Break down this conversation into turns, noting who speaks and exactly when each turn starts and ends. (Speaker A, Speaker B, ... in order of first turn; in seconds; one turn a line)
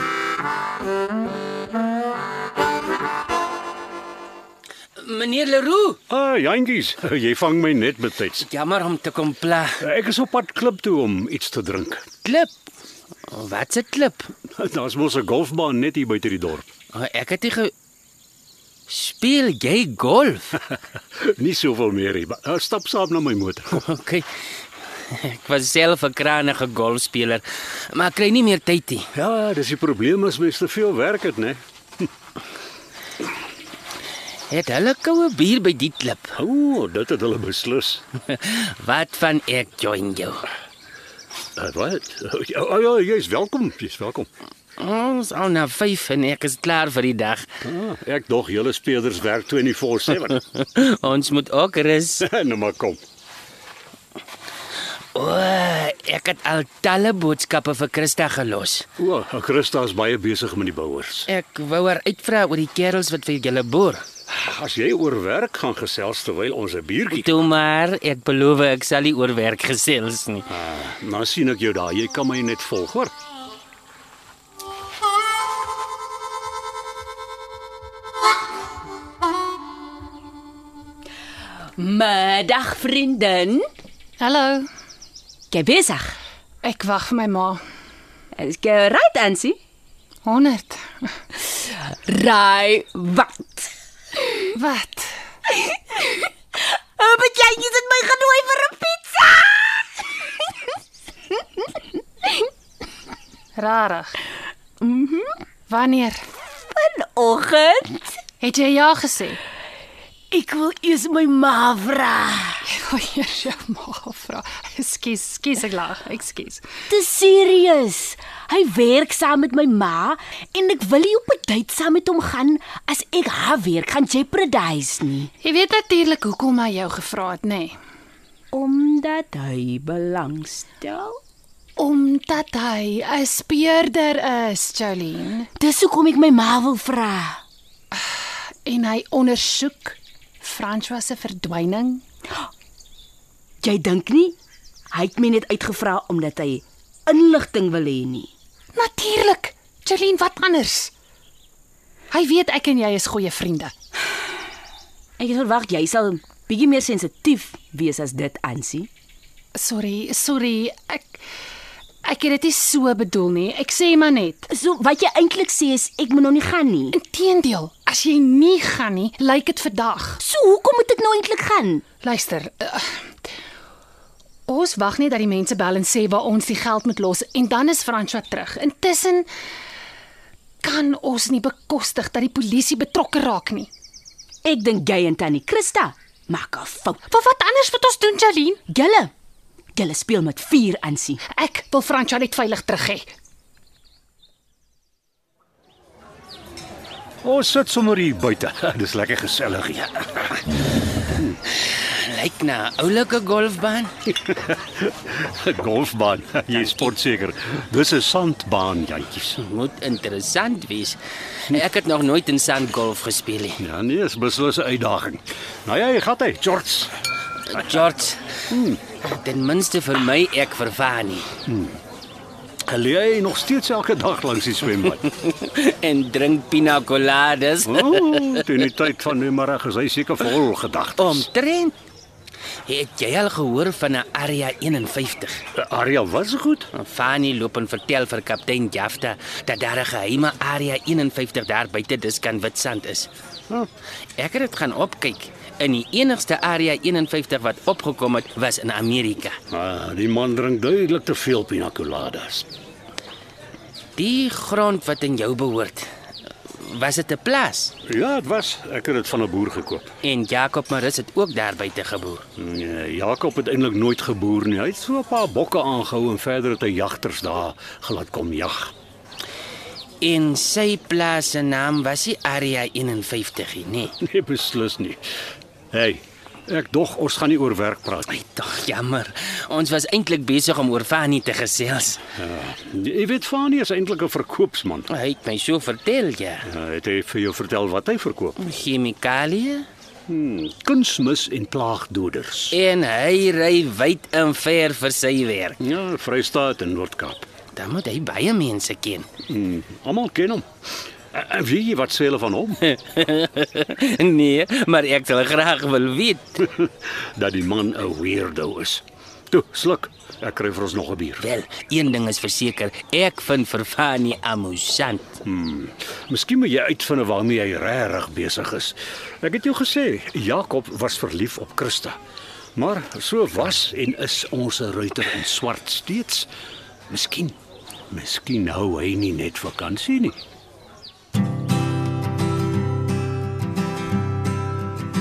Speaker A: 5.0-6.0
Speaker B: 6.1-8.5
Speaker A: 8.4-9.8
Speaker B: 9.8-12.1
Speaker A: 12.2-12.5
Speaker A: 13.3-14.3
Speaker B: 14.6-16.7
Speaker A: 16.9-17.7
Speaker A: 18.9-20.6
Speaker B: 21.2-23.8
Speaker A: 23.8-24.3
Speaker A: 25.1-29.1
Speaker B: 29.2-32.1
Speaker A: 34.5-36.3
Speaker B: 36.4-38.0
Speaker A: 38.3-40.5
Speaker B: 41.6-44.3
Speaker A: 44.8-47.5
Speaker B: 47.6-50.4
Speaker A: 50.5-52.2
Speaker B: 52.2-53.0
Speaker A: 55.1-58.9
Speaker B: 59.0-61.3
Speaker A: 61.3-64.0
Speaker B: 64.3-67.3
Speaker A: 67.1-70.5
Speaker B: 70.5-73.1
Speaker C: 81.8-83.7
Speaker D: 84.2-84.7
Speaker C: 85.5-86.2
Speaker D: 86.6-87.6
Speaker C: 88.4-89.6
Speaker D: 90.2-91.1
Speaker C: 91.5-93.7
Speaker D: 94.5-95.1
Speaker C: 95.7-99.9
Speaker D: 103.6-104.1
Speaker C: 104.8-105.3
Speaker D: 105.7-106.2
Speaker C: 106.7-108.2
Speaker D: 108.4-109.4
Speaker C: 110.3-112.7
Speaker D: 112.7-116.7
Speaker C: 116.9-125.3
Speaker D: 125.4-127.8
Speaker C: 128.5-131.2
Speaker D: 131.8-135.5
Speaker C: 135.6-137.4
Speaker D: 138.7-142.0
Speaker C: 143.6-144.4
Speaker C: 144.9-148.3
Speaker D: 148.8-150.9
Speaker D: 152.1-153.7
Speaker C: 155.2-158.9
Speaker D: 159.6-161.2
Speaker D: 162.1-164.5
Speaker C: 164.5-167.0
Speaker D: 166.9-170.2
Speaker C: 170.2-171.8
Speaker D: 172.0-172.9
Speaker D: 174.5-179.3
Speaker D: 180.6-183.7
Speaker C: 184.4-187.0
Speaker D: 187.1-188.6
Speaker C: 188.7-189.1
Speaker C: 189.8-191.2
Speaker D: 191.3-193.1
Speaker B: 197.2-200.2
Speaker A: 201.5-203.9
Speaker B: 204.2-209.4
Speaker A: 206.5-206.9
Speaker A: 209.4-213.6
Speaker B: 213.6-216.9
Speaker A: 217.5-218.3
Speaker B: 218.5-218.8
Speaker A: 219.0-221.3
Speaker B: 221.5-221.8
Speaker B: 222.7-225.0
Speaker A: 225.1-228.5
Speaker B: 227.7-231.3
Speaker A: 231.0-231.7
Speaker A: 232.7-235.4
Speaker B: 235.6-236.7
Speaker A: 236.7-243.1
Speaker A: 244.2-249.4
Speaker B: 249.5-252.5
Speaker A: 254.0-255.9
Speaker A: 256.5-257.7
Speaker B: 257.9-259.9
Speaker A: 260.0-262.2
Speaker B: 262.4-268.7
Speaker A: 270.0-273.9
Speaker B: 274.0-275.1
Speaker B: 275.7-278.1
Speaker A: 278.1-282.0
Speaker B: 282.2-284.9
Speaker A: 284.9-286.5
Speaker B: 286.5-288.4
Speaker A: 288.4-289.7
Speaker B: 290.1-292.6
Speaker A: 292.5-295.6
Speaker B: 295.6-297.3
Speaker A: 297.6-299.1
Speaker B: 299.3-300.5
Speaker B: 301.1-302.6
Speaker A: 302.7-306.5
Speaker B: 306.5-311.3
Speaker A: 311.2-315.2
Speaker B: 315.3-322.0
Speaker B: 322.6-326.3
Speaker B: 326.9-327.4
Speaker B: 327.9-330.2